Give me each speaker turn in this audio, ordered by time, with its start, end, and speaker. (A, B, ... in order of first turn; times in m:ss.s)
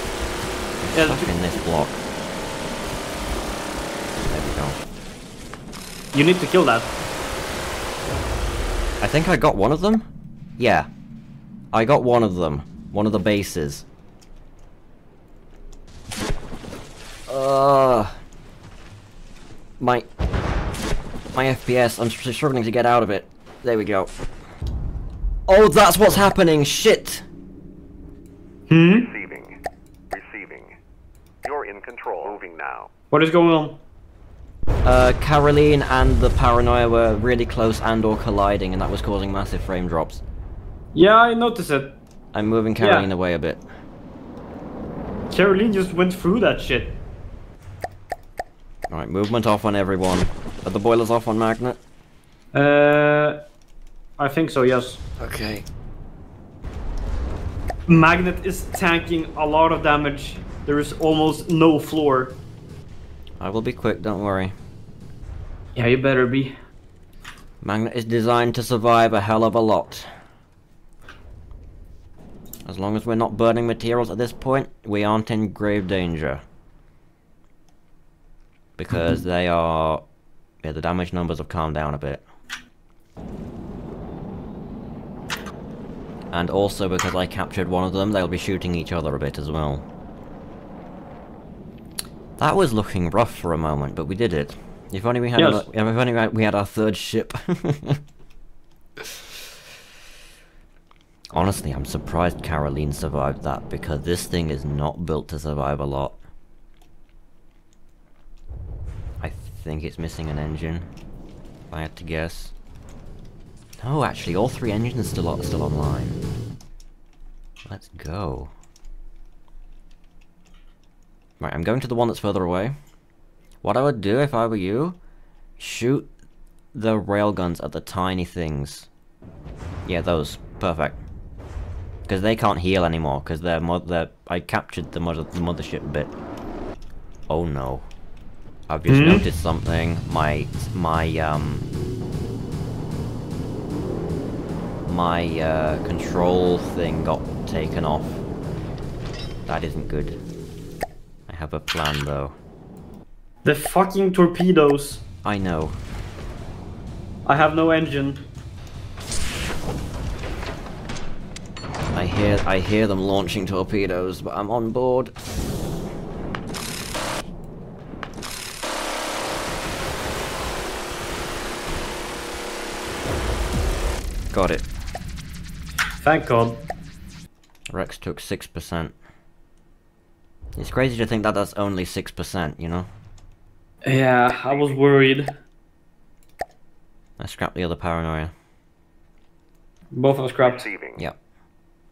0:00.8-0:02.0 A
0:00.9-0:01.3 B
0:04.3-0:04.8 A
0:06.1-0:06.9 B
0:09.0-0:10.1 A
0:10.6-0:10.9 A
0:11.7-0:13.8 A
0:17.3-0:18.2 A
0:19.8-0:20.0 A
0:21.3-0:24.1 A
0:25.5-0:27.2 A
0:28.7-0:29.1 B
0:28.9-0:29.5 C
0:30.1-0:30.8 C
0:31.4-0:32.9 C
0:33.1-0:33.8 B
0:34.8-0:40.2 A
0:40.9-0:42.0 B
0:42.3-0:43.6 A
0:42.8-0:43.1 B
0:45.3-0:47.0 B
0:48.9-0:51.8 A
0:52.5-0:53.4 B
0:54.2-0:55.0 B
0:55.2-0:55.6 A
0:57.9-1:02.4 B
1:03.4-1:04.5 A
1:05.7-1:06.5 B
1:07.6-1:10.1 A
1:12.6-1:16.4 A
1:18.8-1:20.0 A
1:20.6-1:22.2 A
1:26.3-1:29.8 A
1:32.4-1:38.0 A
1:35.4-1:35.6 B
1:41.3-1:46.2 A
1:49.2-1:50.9 A
1:51.7-1:52.5 A
1:53.8-1:56.2 A
1:57.7-1:58.5 A
2:01.4-2:02.7 A
2:03.6-2:05.0 A
2:05.6-2:06.1 A
2:06.7-2:08.9 A
2:09.8-2:11.0 A
2:12.1-2:16.1 A
2:17.3-2:17.9 A
2:18.7-2:21.7 A
2:18.9-2:19.3 B
2:24.8-2:28.2 A
2:29.5-2:30.2 A
2:31.3-2:32.3 A
2:33.4-2:35.0 B
2:35.2-2:35.8 A
2:37.2-2:38.3 B
2:41.9-2:45.1 A
2:54.3-2:54.7 A
2:56.0-2:56.7 B
2:57.7-2:58.9 A
3:00.6-3:02.9 A
3:03.8-3:05.4 B
3:07.2-3:08.3 A
3:09.9-3:10.7 B
3:10.4-3:11.0 C